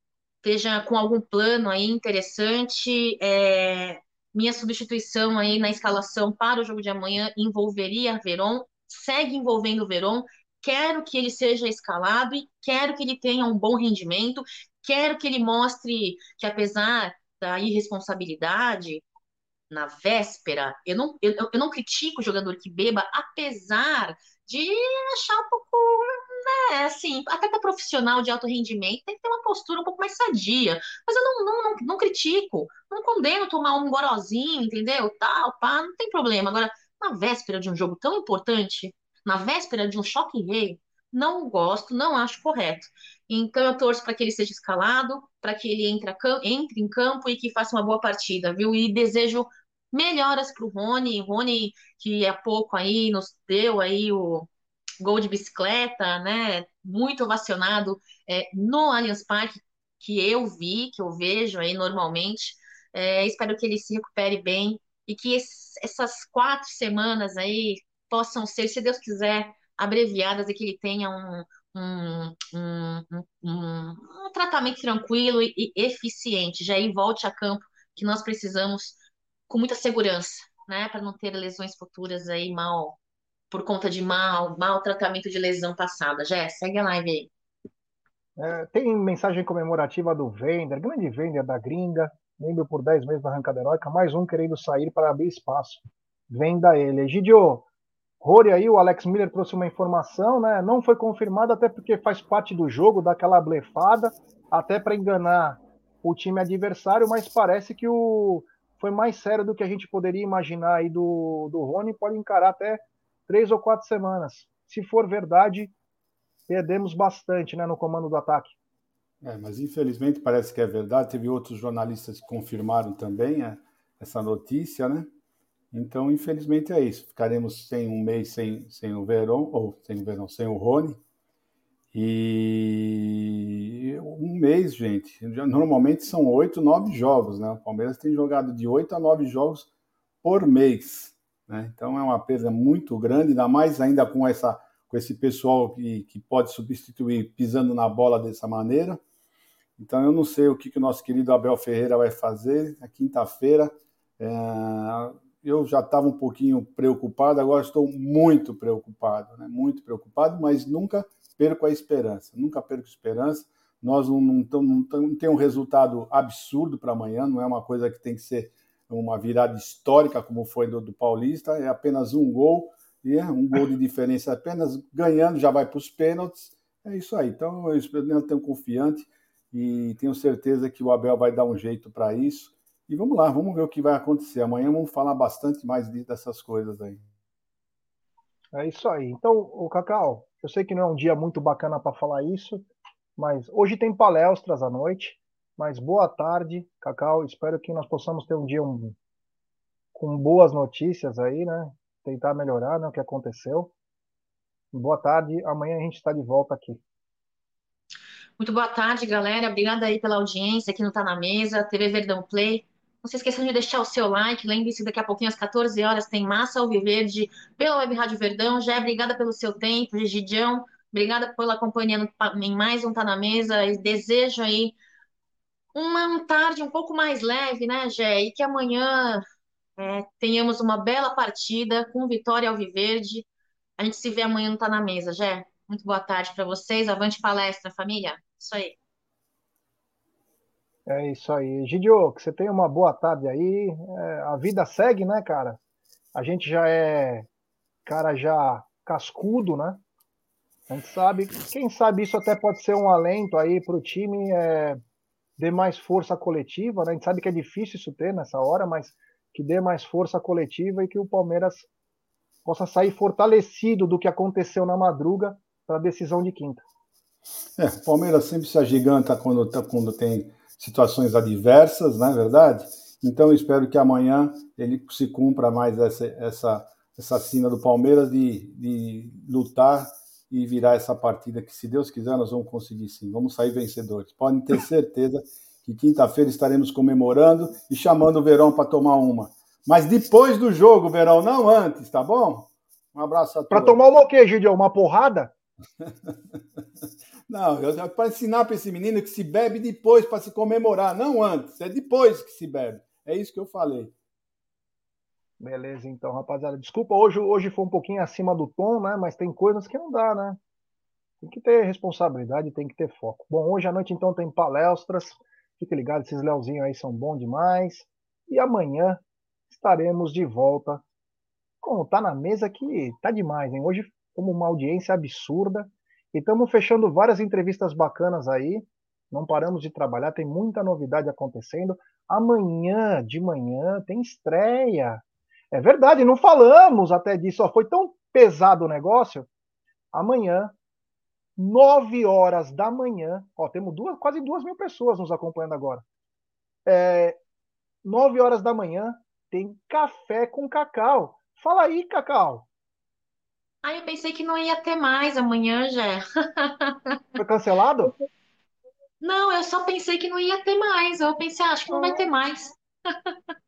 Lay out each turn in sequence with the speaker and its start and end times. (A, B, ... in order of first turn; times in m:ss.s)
0:00.4-0:19.0 A
0:19.7-0:54.5 A
0:55.0-1:19.0 A
1:19.5-1:23.0 A
1:23.5-1:27.3 A
1:28.4-1:37.7 B
1:38.2-1:55.8 B
1:56.5-1:58.6 B
1:59.2-2:05.1 C
2:05.7-2:11.0 C
2:11.9-2:19.7 C
2:20.2-2:29.0 C
2:29.8-3:07.0 C
3:08.6-3:19.0 B
3:20.0-3:23.7 B
3:24.7-3:26.8 B
3:28.4-3:44.8 A
3:45.8-3:49.2 A
3:49.8-3:53.3 A
3:53.8-3:58.8 A
4:00.9-4:05.6 B
4:06.1-4:07.3 B
4:07.8-4:09.8 B
4:10.7-4:14.8 B
4:15.4-4:21.7 B
4:22.4-4:26.6 B
4:27.6-4:53.8 C
4:53.5-4:55.3 B
4:55.8-4:56.4 C
4:57.3-5:03.9 C
5:05.4-5:10.4 B
5:11.2-5:20.8 B
5:21.6-5:39.3 B
5:39.9-5:40.6 B
5:41.4-5:45.8 B
5:46.7-5:47.2 B
5:47.8-5:52.5 B
5:53.6-5:57.0 A
5:57.2-5:57.9 B
5:59.0-6:03.1 A
6:01.7-6:02.1 B